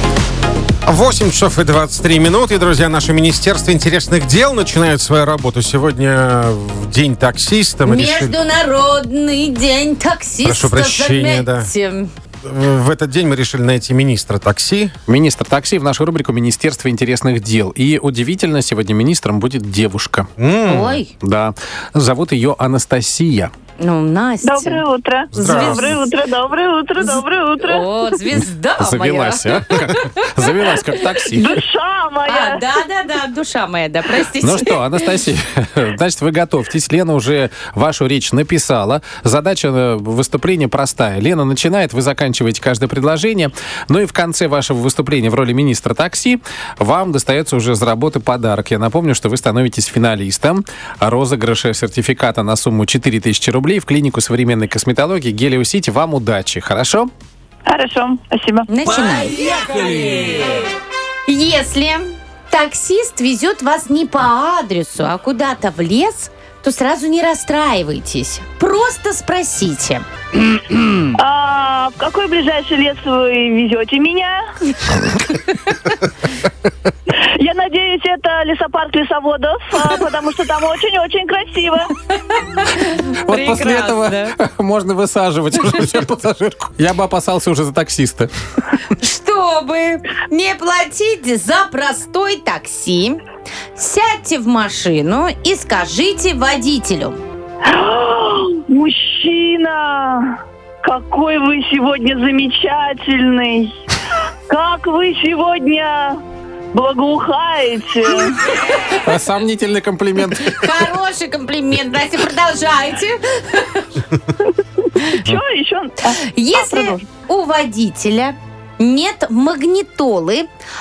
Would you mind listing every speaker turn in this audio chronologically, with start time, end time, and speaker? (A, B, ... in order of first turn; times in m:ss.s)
0:00.8-0:08.4 A
0:07.8-0:12.1 B
0:10.4-0:11.7 A
0:12.4-0:14.9 A
0:15.1-0:20.3 C
0:20.4-0:21.0 A
0:20.6-0:21.1 B
0:21.2-0:23.5 C
0:23.8-0:24.8 B
0:24.4-0:28.2 D
0:25.3-0:26.0 A
0:25.3-0:26.0 B
0:27.0-0:30.1 B
0:28.8-0:31.6 C
0:30.8-0:31.3 B
0:31.3-0:32.8 D
0:32.2-0:35.0 B
0:34.4-0:57.1 C
0:57.7-0:58.7 D
0:58.7-0:59.6 B
1:01.3-1:10.0 B
1:11.1-1:14.4 D
1:15.3-1:15.7 B
1:17.4-1:21.9 D
1:22.6-1:24.3 B
1:23.1-1:28.3 C
1:29.0-1:33.2 B
1:33.8-1:37.2 B
1:37.6-1:43.7 D
1:44.5-1:46.2 D
1:46.7-1:48.3 D
1:49.0-1:50.8 C
1:50.4-1:54.0 B
1:54.4-1:57.1 D
1:56.1-2:00.5 B